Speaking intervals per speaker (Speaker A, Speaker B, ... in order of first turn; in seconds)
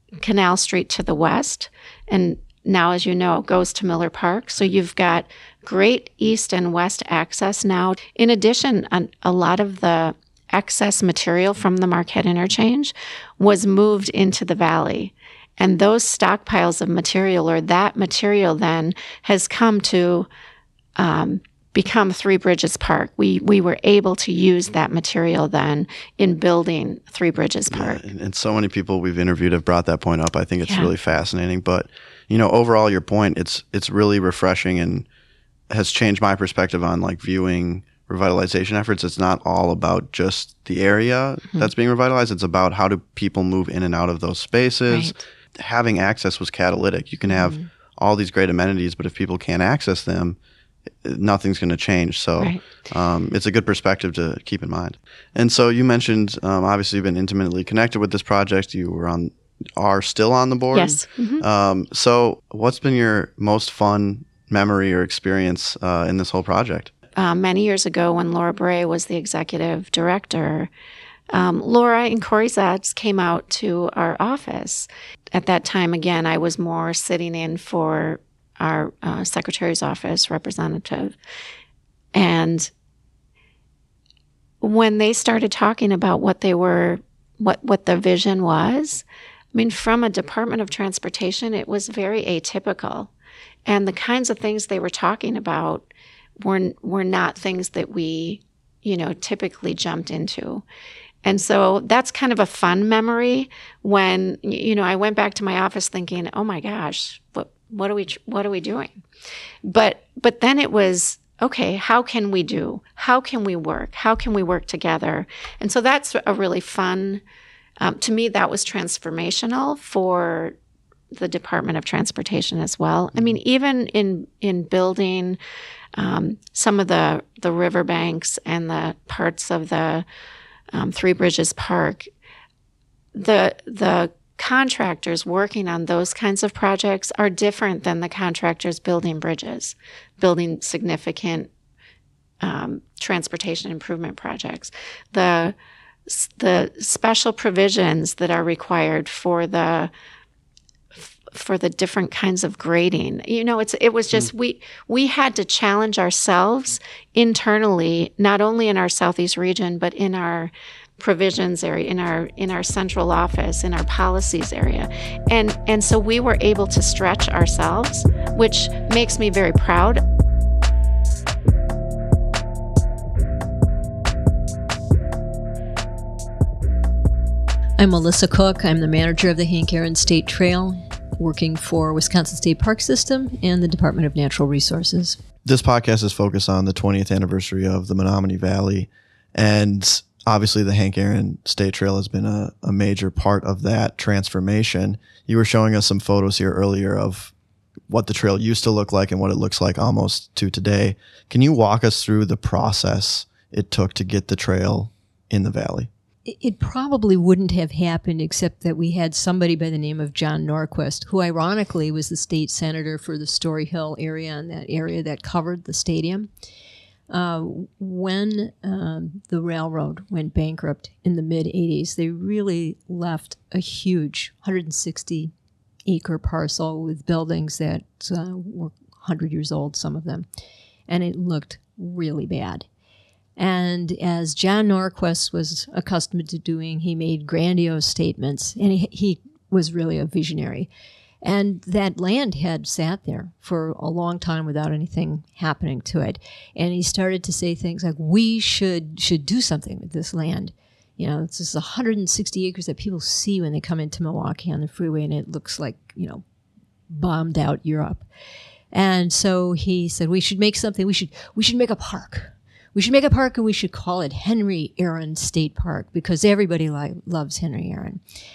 Speaker A: 0.2-20.3, 21.0-28.0, 30.7-30.9, 44.9-45.1, 47.3-47.7, 52.4-52.9, 60.7-61.5, 67.2-70.7, 71.3-81.2, 82.1-82.7, 84.6-93.1, 93.7-100.7, 101.2-109.0, 109.7-117.2, 117.8-120.6, 121.1-125.4, 126.0-130.1, 130.7-132.1, 133.2-141.5, 142.4-145.6, 146.1-149.9, 150.9-170.0
Speaker B: 27.7-35.1, 35.7-50.4, 51.0-66.9, 185.4-197.3, 197.9-205.9
Speaker C: 177.8-185.2, 206.3-216.3, 217.1-225.3, 225.8-230.3, 230.9-232.7, 233.4-240.7, 241.2-256.2, 256.9-258.1, 258.7-268.0